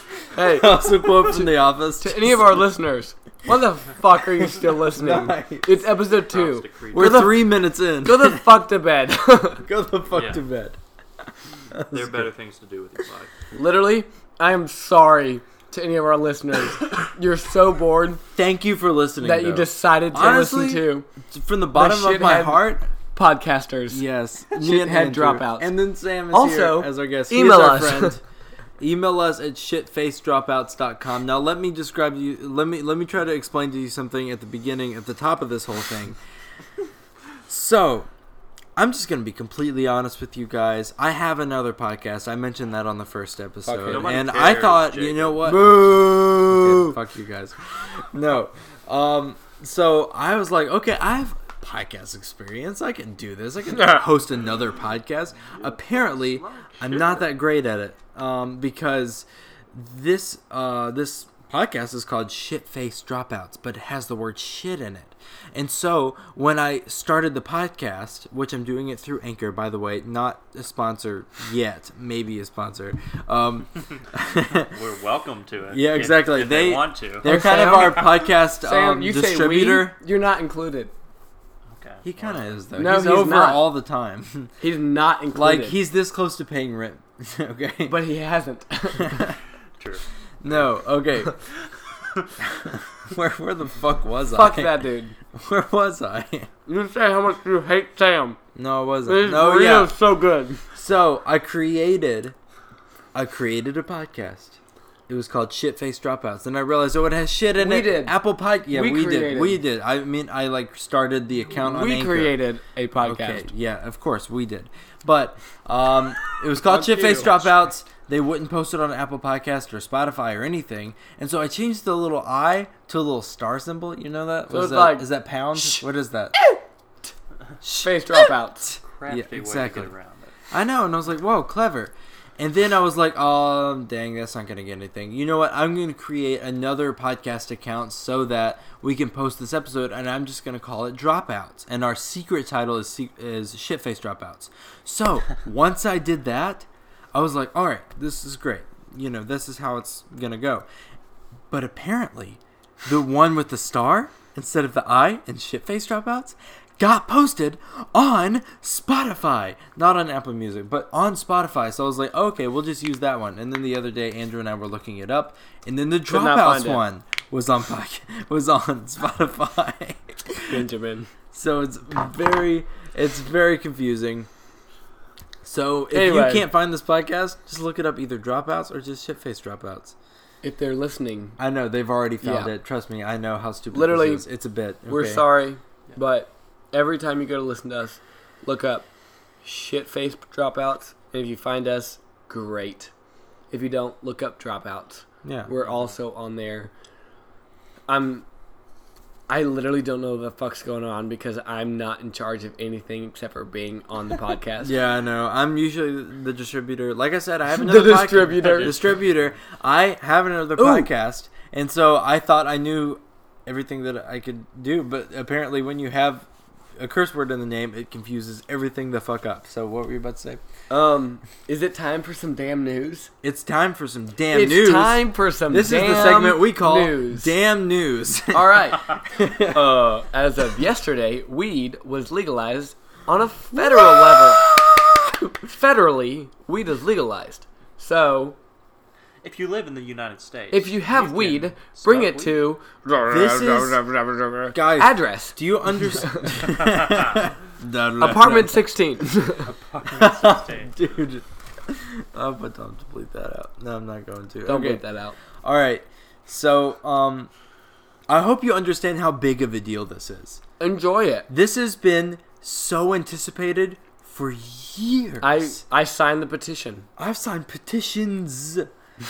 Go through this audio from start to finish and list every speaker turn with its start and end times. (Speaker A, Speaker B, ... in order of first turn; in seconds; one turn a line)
Speaker A: 0.3-9.6
Speaker B: 0.4-2.6
Speaker B: 4.3-5.8
Speaker C: 6.2-7.3
Speaker B: 6.9-8.6
Speaker B: 9.6-10.8
Speaker C: 10.1-10.4
Speaker B: 11.7-12.3
Speaker C: 11.8-13.3
Speaker A: 13.5-18.2
Speaker B: 18.3-22.9
Speaker A: 19.2-21.1
Speaker A: 21.7-25.7
Speaker B: 23.9-28.2
Speaker A: 26.3-28.2
Speaker B: 28.8-36.2
Speaker B: 37.5-38.1
Speaker B: 38.8-74.7
Speaker A: 43.6-44.2
Speaker C: 43.9-45.4
Speaker A: 45.4-47.0
Speaker C: 55.4-57.3
Speaker C: 74.6-78.2
Speaker B: 75.7-80.0
Speaker A: 77.2-80.9
Speaker C: 81.7-82.6
Speaker B: 82.0-84.5
Speaker A: 82.7-83.7
Speaker A: 84.6-85.8
Speaker B: 85.3-88.0
Speaker A: 87.9-89.3
Speaker B: 88.9-89.4
Speaker C: 89.8-90.7
Speaker B: 90.4-91.3
Speaker C: 91.9-92.3
Speaker B: 92.4-94.8
Speaker A: 94.3-95.2
Speaker B: 95.3-96.5
Speaker A: 96.7-98.4
Speaker B: 98.5-99.9
Speaker A: 99.0-100.6
Speaker B: 100.7-102.3
Speaker B: 103.1-112.3
Speaker A: 107.6-108.2
Speaker A: 108.7-109.6
Speaker A: 111.6-113.5
Speaker B: 113.0-126.3
Speaker A: 116.6-117.5
Speaker A: 124.5-126.6
Speaker B: 127.6-129.9
Speaker A: 127.8-128.7
Speaker C: 128.8-130.3
Speaker B: 130.5-150.6
Speaker B: 151.5-170.6
Speaker A: 166.1-166.8
Speaker A: 170.5-171.1
Speaker B: 171.3-174.3
Speaker B: 175.4-179.9
Speaker A: 175.9-176.5
Speaker A: 180.4-181.4
Speaker B: 181.4-185.2
Speaker A: 182.2-182.5
Speaker A: 183.7-184.2
Speaker A: 184.9-188.9
Speaker A: 189.4-192.9
Speaker A: 193.5-196.7
Speaker B: 195.2-195.5
Speaker C: 195.6-195.9
Speaker A: 197.9-198.2
Speaker A: 199.3-204.8
Speaker B: 204.6-220.4
Speaker A: 207.5-208.7
Speaker C: 208.3-209.1
Speaker A: 210.6-210.9
Speaker A: 220.7-223.1
Speaker B: 223.2-229.7
Speaker A: 224.3-227.3
Speaker A: 228.3-234.6
Speaker B: 233.6-234.8
Speaker A: 235.1-238.3
Speaker C: 239.2-242.5
Speaker A: 240.5-245.4
Speaker B: 243.1-243.8
Speaker B: 244.5-248.6
Speaker A: 245.9-246.3
Speaker C: 246.5-247.3
Speaker A: 248.0-249.5
Speaker C: 249.4-250.9
Speaker B: 249.9-254.8
Speaker A: 254.4-255.2
Speaker B: 255.4-257.3
Speaker B: 258.1-260.4
Speaker A: 260.6-261.3
Speaker B: 261.3-265.6
Speaker A: 265.2-266.9
Speaker B: 267.0-268.7